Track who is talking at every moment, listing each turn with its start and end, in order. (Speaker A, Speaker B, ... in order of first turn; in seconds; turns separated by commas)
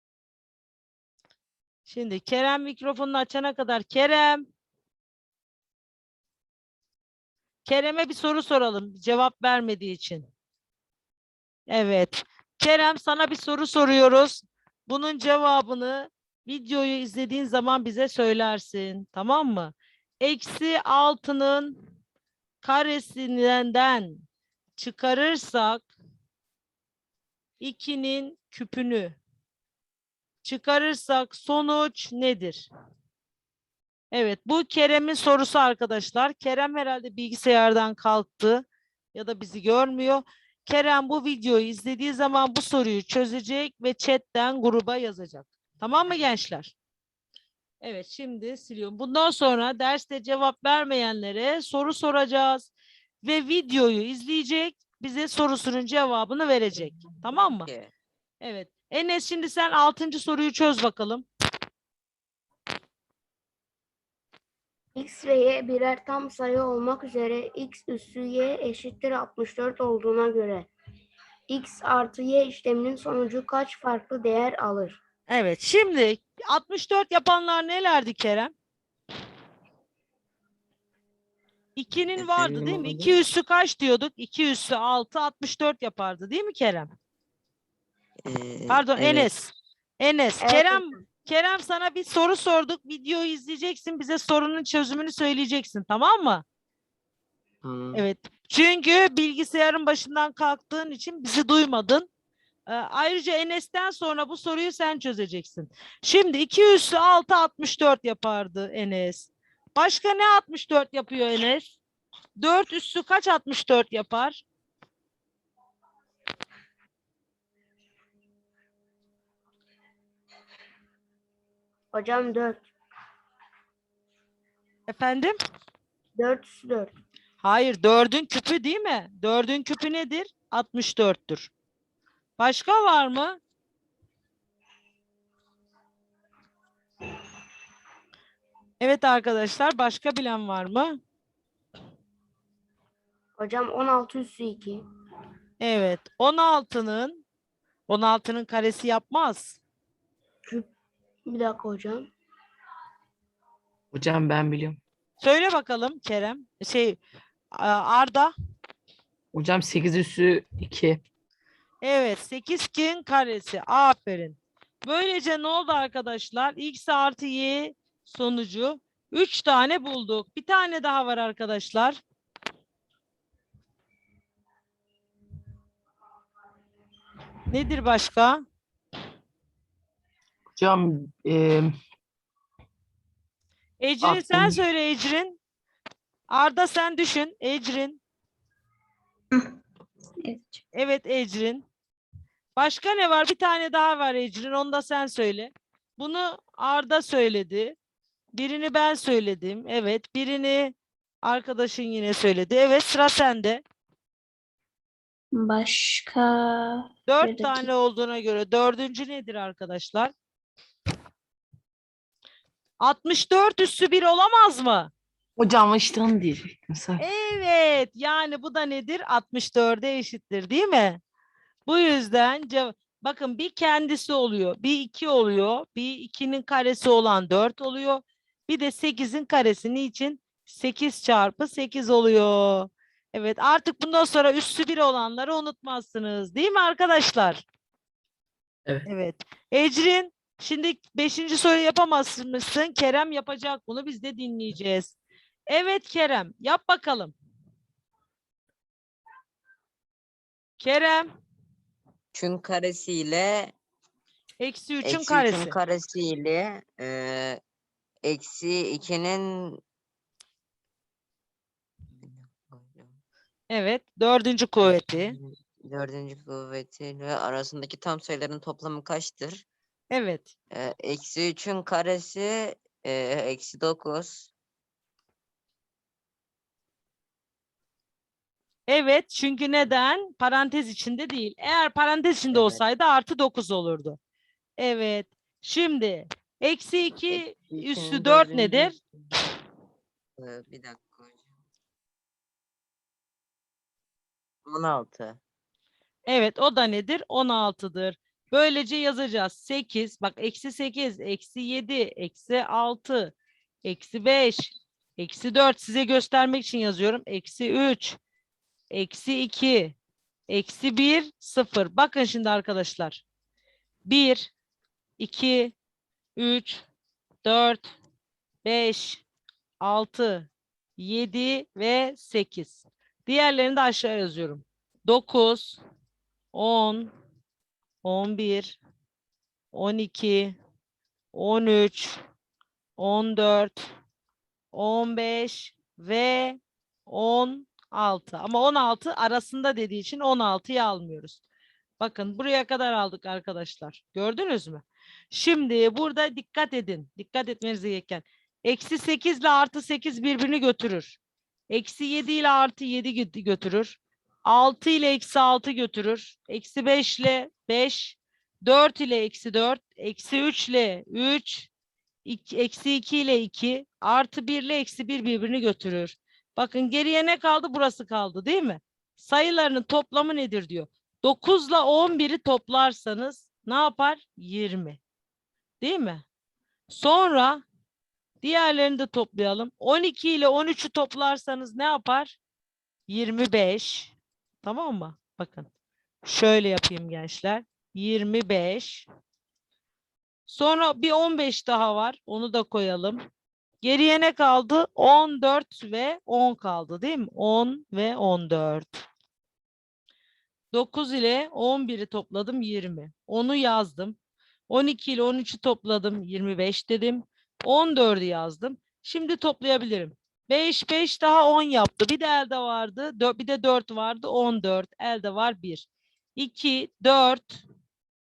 Speaker A: 1.9-4.5, Speaker A: 7.7-10.3, Speaker A: 11.7-21.8, Speaker A: 22.6-24.2, Speaker A: 24.8-25.9, Speaker A: 27.6-29.2, Speaker A: 30.4-32.7, Speaker A: 34.1-46.7, Speaker A: 47.8-52.7, Speaker A: 53.2-57.7, Speaker B: 57.5-57.9, Speaker A: 58.4-61.2, Speaker C: 65.0-70.7, Speaker C: 71.5-75.0, Speaker A: 75.3-78.5, Speaker A: 81.8-86.9, Speaker B: 82.2-83.2, Speaker B: 88.2-89.3, Speaker A: 88.7-96.4, Speaker C: 90.4-91.0, Speaker B: 97.6-98.0, Speaker A: 97.9-102.1, Speaker A: 102.7-111.8, Speaker A: 112.4-114.4, Speaker C: 121.9-122.7, Speaker A: 124.9-125.4, Speaker C: 126.2-126.9, Speaker A: 127.4-131.5, Speaker A: 132.4-133.4, Speaker A: 138.8-141.0, Speaker C: 143.4-144.8, Speaker A: 145.6-147.2, Speaker A: 147.9-149.6, Speaker C: 151.3-152.1, Speaker D: 153.9-154.8, Speaker A: 155.2-157.0, Speaker A: 157.5-158.3, Speaker D: 159.3-161.0, Speaker A: 161.8-172.0, Speaker A: 177.5-178.4, Speaker D: 180.6-181.7, Speaker A: 183.8-185.4, Speaker D: 184.0-184.6, Speaker A: 186.3-188.0, Speaker E: 190.2-190.6, Speaker A: 190.7-191.6, Speaker A: 192.6-197.8, Speaker A: 198.3-203.6, Speaker E: 205.3-207.7, Speaker A: 207.1-210.1, Speaker A: 212.8-214.9, Speaker D: 215.4-217.0, Speaker A: 217.0-221.0, Speaker A: 221.7-237.4, Speaker A: 238.9-244.9, Speaker A: 245.5-247.1, Speaker A: 250.6-251.1, Speaker B: 252.1-253.6, Speaker A: 254.4-255.6, Speaker B: 254.8-257.4, Speaker B: 258.0-259.6, Speaker B: 261.9-262.9, Speaker A: 263.5-265.1, Speaker B: 264.6-269.4, Speaker A: 269.9-270.3, Speaker B: 270.5-274.3, Speaker A: 278.7-284.0, Speaker B: 282.3-282.6, Speaker A: 284.6-288.8, Speaker B: 287.1-289.0, Speaker B: 290.2-291.3, Speaker B: 294.4-295.2, Speaker A: 296.1-308.0, Speaker A: 308.7-309.8, Speaker A: 310.3-313.0, Speaker A: 313.9-314.3, Speaker A: 315.0-315.5, Speaker A: 316.1-316.6, Speaker A: 317.2-317.7, Speaker A: 318.4-319.0, Speaker A: 319.6-325.6, Speaker A: 326.3-326.9, Speaker A: 327.8-328.6, Speaker A: 329.5-330.4, Speaker A: 331.1-332.0, Speaker A: 332.8-333.6, Speaker A: 334.5-341.2, Speaker A: 341.8-351.0, Speaker A: 351.5-361.5, Speaker A: 362.0-374.8, Speaker A: 375.6-376.0, Speaker A: 376.7-377.4, Speaker A: 378.2-382.2, Speaker A: 382.9-385.5, Speaker A: 386.0-388.9, Speaker A: 390.3-393.0, Speaker A: 393.6-398.9, Speaker A: 400.5-404.0, Speaker A: 404.5-417.4